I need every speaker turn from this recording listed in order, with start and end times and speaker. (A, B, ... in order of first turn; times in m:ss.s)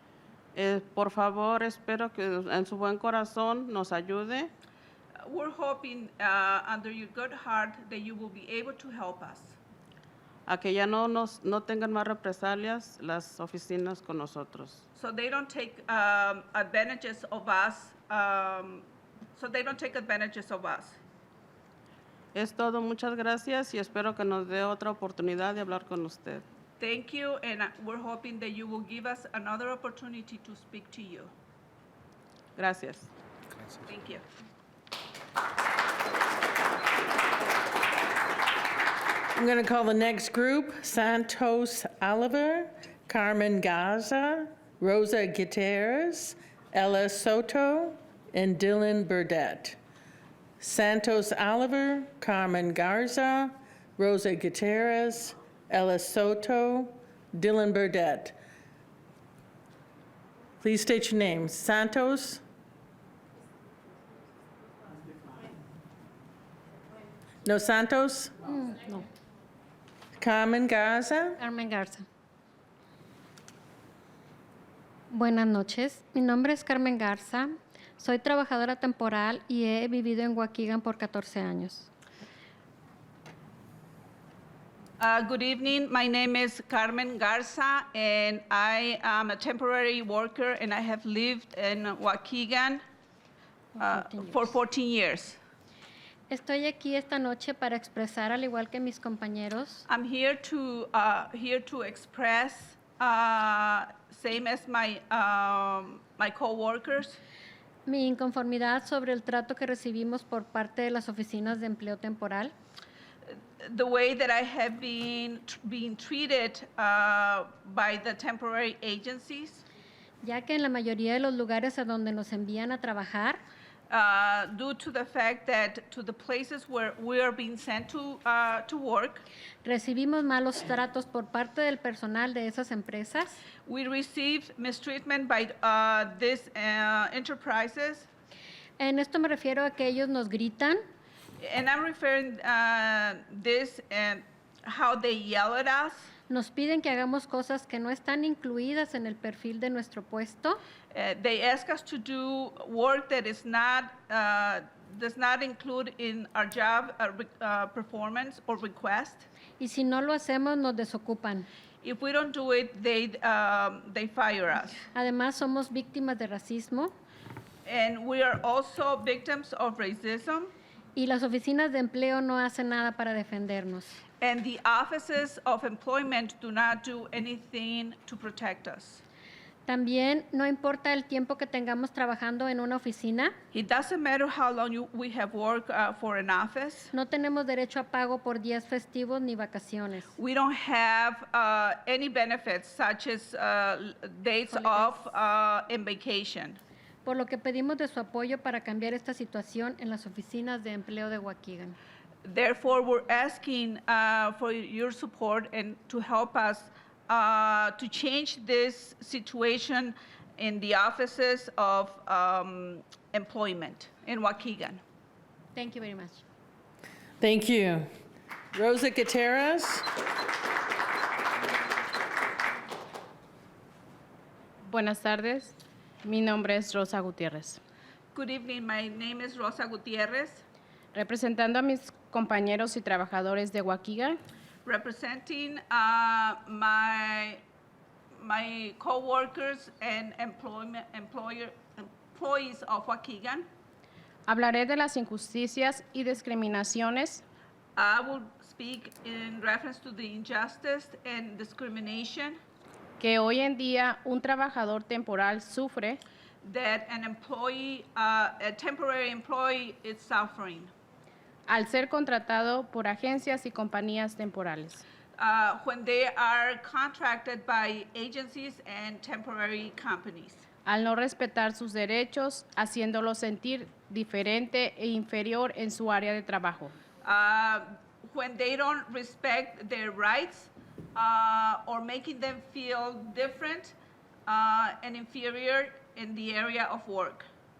0:00.5-0:04.5 A
0:05.2-0:09.6 B
0:10.5-0:14.8 A
0:15.0-0:21.0 B
0:22.3-0:26.4 A
0:26.8-0:31.3 B
0:32.6-0:33.1 A
0:33.8-0:34.2 B
0:39.3-0:49.8 C
0:50.6-0:58.4 C
1:00.6-1:02.4 C
1:07.4-1:08.3 C
1:08.5-1:09.1 D
1:10.2-1:11.4 C
1:11.4-1:12.0 D
1:15.1-1:21.9 D
1:25.0-1:32.8 B
1:33.8-1:34.5 D
1:33.8-1:35.4 B
1:36.3-1:39.8 D
1:39.9-1:47.2 B
1:47.9-1:52.5 D
1:53.6-1:59.6 B
2:00.2-2:03.4 D
2:03.9-2:09.2 B
2:09.6-2:13.4 D
2:13.6-2:18.1 B
2:18.8-2:20.8 D
2:21.4-2:26.1 B
2:26.3-2:30.6 D
2:30.9-2:39.3 B
2:39.6-2:41.5 D
2:41.8-2:44.8 B
2:44.9-2:46.9 D
2:47.6-2:50.5 B
2:51.0-2:54.0 D
2:54.2-2:59.0 B
2:59.6-3:03.3 D
3:03.5-3:06.9 B
3:06.9-3:10.1 D
3:10.2-3:16.6 B
3:14.5-3:15.0 D
3:17.0-3:21.8 D
3:22.2-3:34.8 B
3:35.6-3:36.2 D
3:37.2-3:37.9 C
3:38.5-3:39.9 C
3:44.6-3:47.6 E
3:48.1-3:50.4 B
3:50.9-3:54.2 E
3:54.6-3:57.4 B
3:58.2-4:03.5 B
4:04.3-4:07.2 E
4:07.8-4:12.4 B
4:13.0-4:16.0 E
4:16.4-4:20.7 B
4:21.5-4:24.8 E
4:25.2-4:30.4 B
4:30.6-4:36.7 E
4:37.0-4:43.8 B
4:44.3-4:47.2 B